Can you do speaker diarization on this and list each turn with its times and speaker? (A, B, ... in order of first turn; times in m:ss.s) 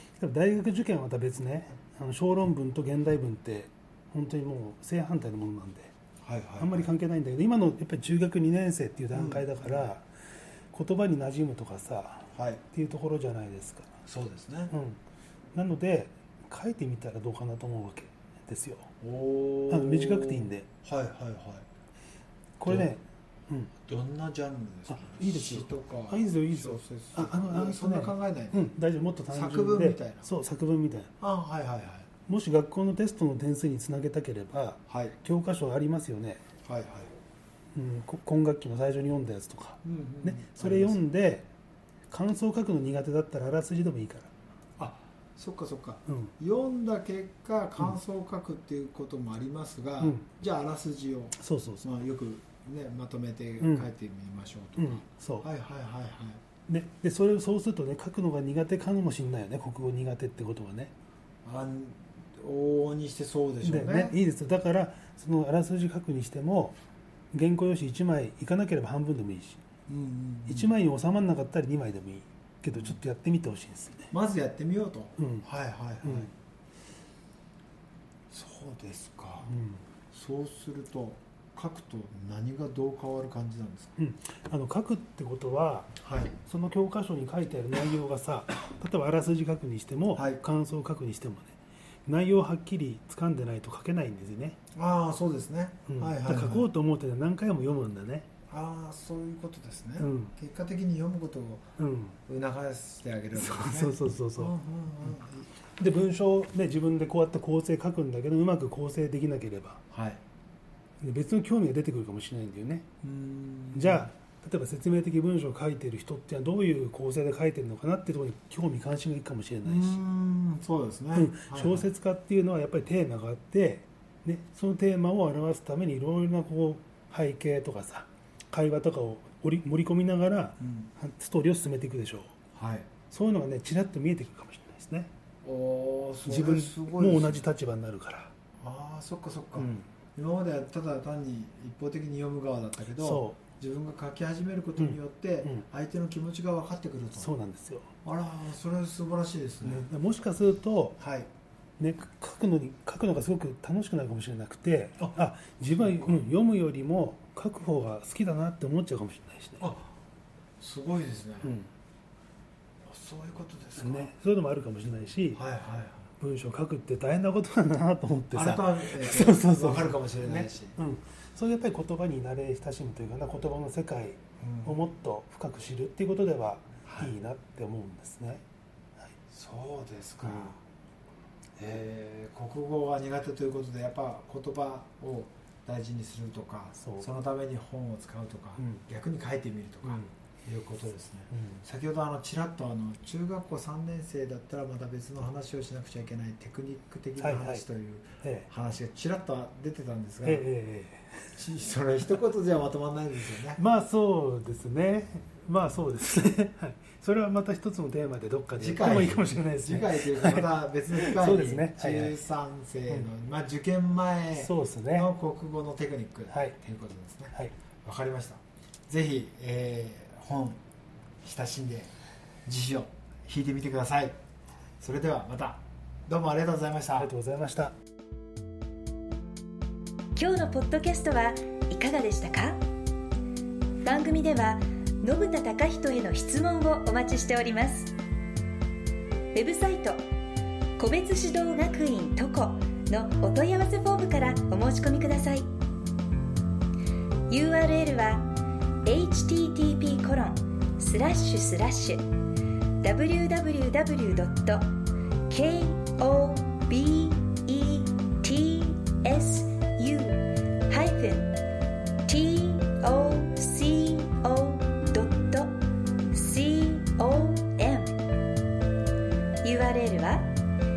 0:00.2-0:05.9 A
0:06.2-0:06.9 B
0:06.6-0:10.1 A
0:09.1-0:09.9 B
0:10.7-0:14.0 A
0:12.3-0:12.6 B
0:14.1-0:14.7 B
0:14.7-0:15.0 A
0:15.5-0:18.9 A
0:19.0-0:21.6 B
0:19.7-0:20.7 A
0:22.6-0:23.7 A
0:22.6-0:22.9 B
0:23.8-0:28.7 B
0:24.9-0:31.1 A
0:29.3-0:30.3 B
0:31.2-0:32.1 B
0:32.2-0:36.4 A
0:34.9-0:35.2 B
0:36.6-0:37.1 B
0:37.7-0:41.5 A
0:39.8-0:41.0 B
0:42.1-0:44.3 A
0:44.8-0:56.4 B
0:46.0-0:46.3 A
0:50.0-0:50.3 A
0:51.4-0:51.9 A
0:53.6-0:53.9 A
0:54.8-0:55.5 A
0:56.7-1:00.9 A
1:01.4-1:04.2 B
1:03.6-1:06.8 A
1:07.3-1:09.6 A
1:09.9-1:10.7 B
1:10.5-1:14.1 A
1:14.1-1:16.3 B
1:15.2-1:15.5 A
1:16.0-1:16.3 A
1:18.3-1:19.5 B
1:19.4-1:19.8 A
1:20.1-1:23.9 B
1:24.0-1:31.5 A
1:26.0-1:26.3 B
1:30.1-1:30.4 B
1:32.0-1:34.6 A
1:34.7-1:36.7 B
1:35.9-1:38.3 A
1:38.5-1:41.6 B
1:40.0-1:40.3 A
1:41.8-1:42.2 A
1:42.3-1:45.5 B
1:43.4-1:44.5 A
1:45.8-1:49.8 A
1:49.9-1:50.2 B
1:51.0-1:52.8 A
1:53.0-1:54.1 B
1:53.7-2:00.0 A
1:59.6-2:01.9 B
2:01.1-2:12.3 A
2:10.6-2:10.9 B
2:12.5-2:12.9 B
2:13.1-2:15.1 A
2:15.4-2:17.4 B
2:16.2-2:18.3 A
2:18.6-2:27.3 B
2:19.6-2:19.8 A
2:23.0-2:23.4 A
2:24.8-2:25.6 A
2:27.2-2:27.9 A
2:28.0-2:29.9 B
2:29.6-2:31.0 A
2:31.0-2:31.3 B
2:31.8-2:39.7 A
2:35.8-2:36.2 B
2:39.6-2:39.9 B
2:40.6-2:41.5 B
2:41.4-2:41.7 A
2:42.8-2:44.1 B
2:43.8-2:45.4 A
2:45.3-2:46.1 B
2:46.2-2:58.4 A
2:48.3-2:50.8 B
2:54.4-2:54.8 B
2:56.8-2:57.1 B
2:59.3-3:00.6 B
3:00.2-3:00.5 A
3:01.6-3:20.5 B
3:06.8-3:07.2 A
3:08.6-3:08.8 A
3:09.8-3:10.1 A
3:11.3-3:11.6 A
3:17.2-3:17.6 A
3:18.2-3:18.5 A
3:20.2-3:21.3 A
3:21.3-3:23.6 B
3:23.5-3:32.2 A
3:28.5-3:40.6 B
3:34.3-3:35.1 A
3:36.3-3:36.6 A
3:41.2-3:41.9 B
3:42.4-3:44.1 B
3:44.8-3:47.1 B
3:47.0-3:47.7 A
3:50.2-3:52.6 C
3:53.8-3:57.9 C
3:59.3-4:00.0 C
4:00.8-4:05.5 C
4:07.3-4:08.3 C
4:08.8-4:12.0 C
4:12.8-4:14.6 C
4:15.3-4:21.3 C
4:22.0-4:25.5 C
4:26.1-4:28.0 C
4:29.4-4:30.3 C